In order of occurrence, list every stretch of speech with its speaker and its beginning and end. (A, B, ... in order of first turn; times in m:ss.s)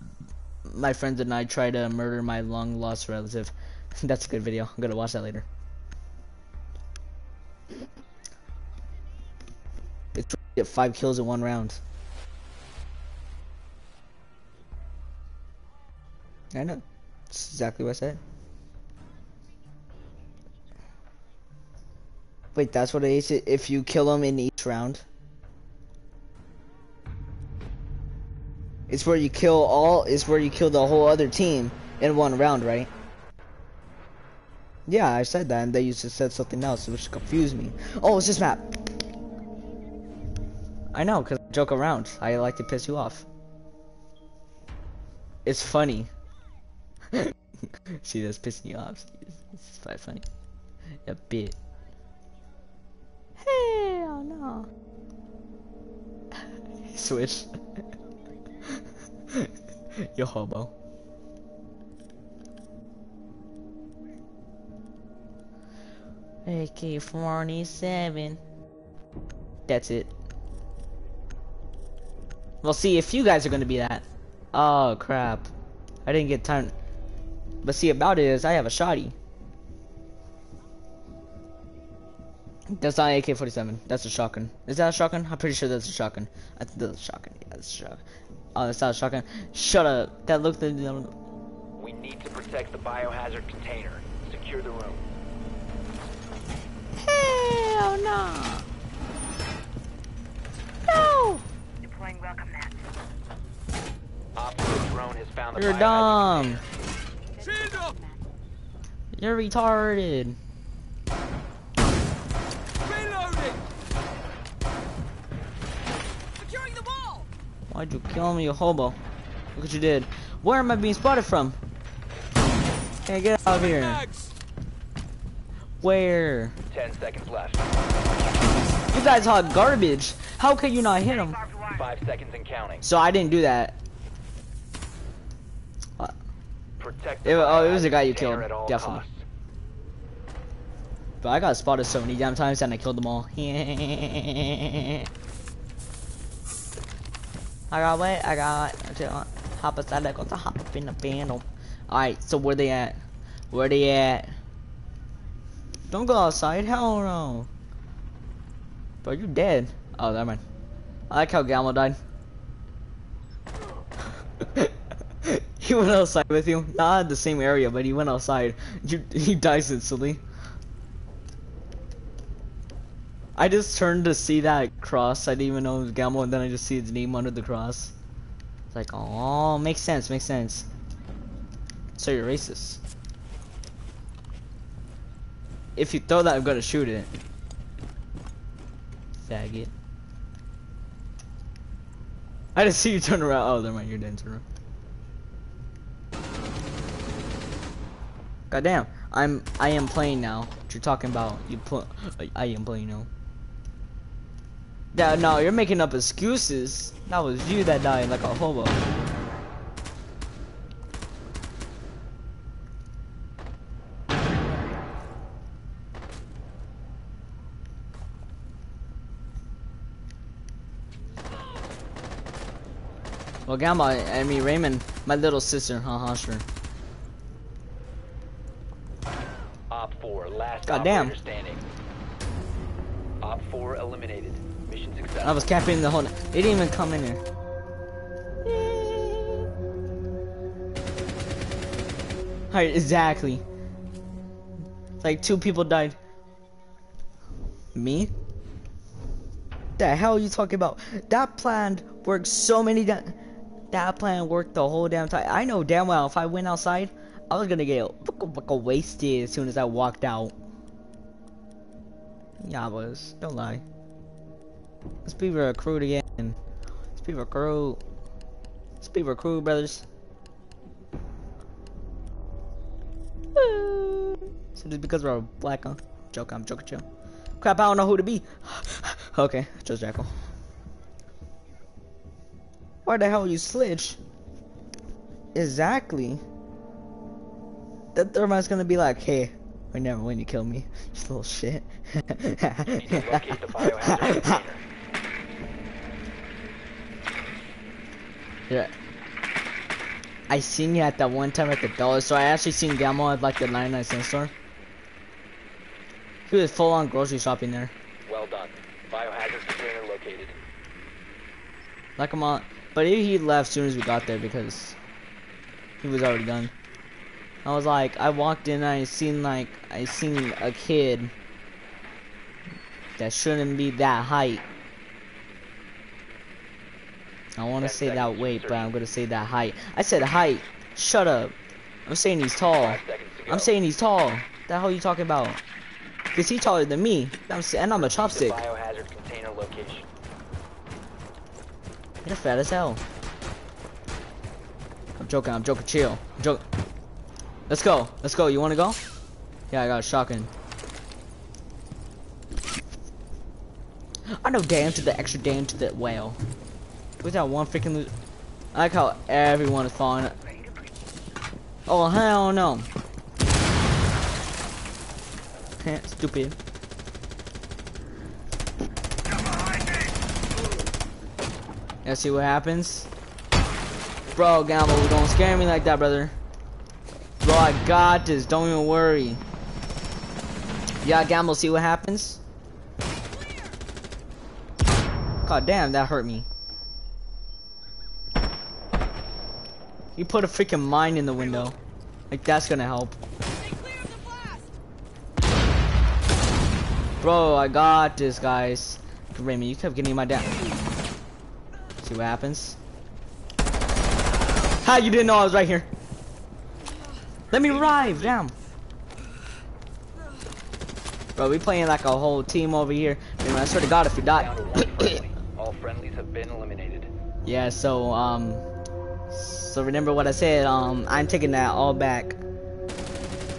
0:00.7-0:05.4 A
0:10.1-0:11.8 A
0:16.5-0:18.2 A
0:22.5-0:25.0 A
0:28.9-0:32.9 A
0:34.9-0:38.8 A
0:40.9-0:43.2 A
0:45.4-0:46.1 A
0:47.1-0:47.4 A
0:48.0-0:50.2 A
0:51.0-0:51.6 A
0:53.4-0:54.7 A
0:56.9-0:57.5 A
0:58.7-1:00.7 A
1:06.4-1:08.4 A
1:09.7-1:10.1 A
1:12.6-1:15.5 A
1:16.0-1:16.7 A
1:17.6-1:19.1 A
1:22.7-1:28.0 A
1:28.5-1:31.1 A
1:31.8-1:35.1 B
1:37.0-1:38.7 A
1:40.9-1:41.4 A
1:41.8-1:42.8 C
1:44.3-1:46.6 B
1:45.6-1:46.6 A
1:47.2-1:48.3 C
1:47.4-1:47.9 D
1:49.1-1:50.4 A
1:52.8-1:53.6 D
1:56.3-1:57.3 D
1:57.7-1:59.0 A
1:59.5-2:01.6 A
2:03.0-2:04.0 A
2:03.5-2:04.3 D
2:05.8-2:06.6 A
2:06.7-2:07.6 B
2:08.9-2:11.4 A
2:11.0-2:11.9 C
2:11.7-2:12.8 B
2:12.8-2:13.8 A
2:16.8-2:19.2 B
2:17.2-2:19.0 A
2:21.2-2:25.0 A
2:27.7-2:33.0 A
2:33.5-2:34.3 A
2:35.9-2:37.5 A
2:39.0-2:40.4 A
2:41.1-2:42.0 A
2:44.4-2:50.2 A
2:53.4-2:57.9 A
2:58.7-3:00.7 A
3:02.0-3:02.8 A
3:05.8-3:07.1 A
3:09.2-3:09.7 A
3:12.5-3:14.4 A
3:18.5-3:23.1 A
3:24.9-3:28.8 A
3:43.4-3:46.4 A
3:49.7-3:51.6 B
3:50.7-3:51.1 A
3:53.2-3:55.5 B
3:55.2-3:57.2 A
3:58.4-3:59.4 A
4:02.5-4:03.4 A
4:05.0-4:06.0 A
4:07.7-4:08.1 A
4:09.8-4:13.2 A
4:13.7-4:20.3 A
4:22.4-4:23.6 A
4:25.0-4:26.4 A
4:27.0-4:27.8 A
4:28.8-4:29.8 A
4:33.3-4:36.8 A
4:37.4-4:40.1 A
4:42.8-4:44.0 A
4:45.3-4:46.2 A
4:47.9-4:54.4 A
4:52.7-4:54.6 B
5:00.3-5:04.3 A
5:06.3-5:07.7 A
5:08.0-5:10.4 B
5:12.0-5:14.8 A
5:15.8-5:16.5 A
5:17.4-5:21.1 A
5:23.0-5:24.4 A
5:27.4-5:31.3 A
5:27.6-5:28.7 B
5:31.9-5:35.4 A
5:32.6-5:33.5 B
5:36.1-5:38.4 A
5:37.7-5:39.9 B
5:42.0-5:42.8 A
5:45.0-5:46.4 A
5:47.5-5:48.8 A
5:49.5-5:50.3 A
5:54.1-5:56.2 A
5:57.0-5:57.9 A
5:58.5-6:00.1 A
6:00.2-6:00.7 C
6:01.7-6:02.7 A
6:05.6-6:06.4 A
6:11.8-6:12.9 A
6:14.1-6:16.1 A
6:17.2-6:19.2 A
6:20.8-6:22.2 A
6:25.2-6:26.3 A
6:29.9-6:31.6 A
6:32.1-6:33.0 A
6:33.3-6:34.4 D
6:37.0-6:40.4 A
6:41.8-6:42.6 A
6:44.6-6:45.7 A
6:47.3-6:48.3 A
6:47.3-6:48.1 B
6:51.2-6:55.0 A
6:54.0-6:56.9 B
6:57.2-6:58.4 A
6:59.1-7:02.2 A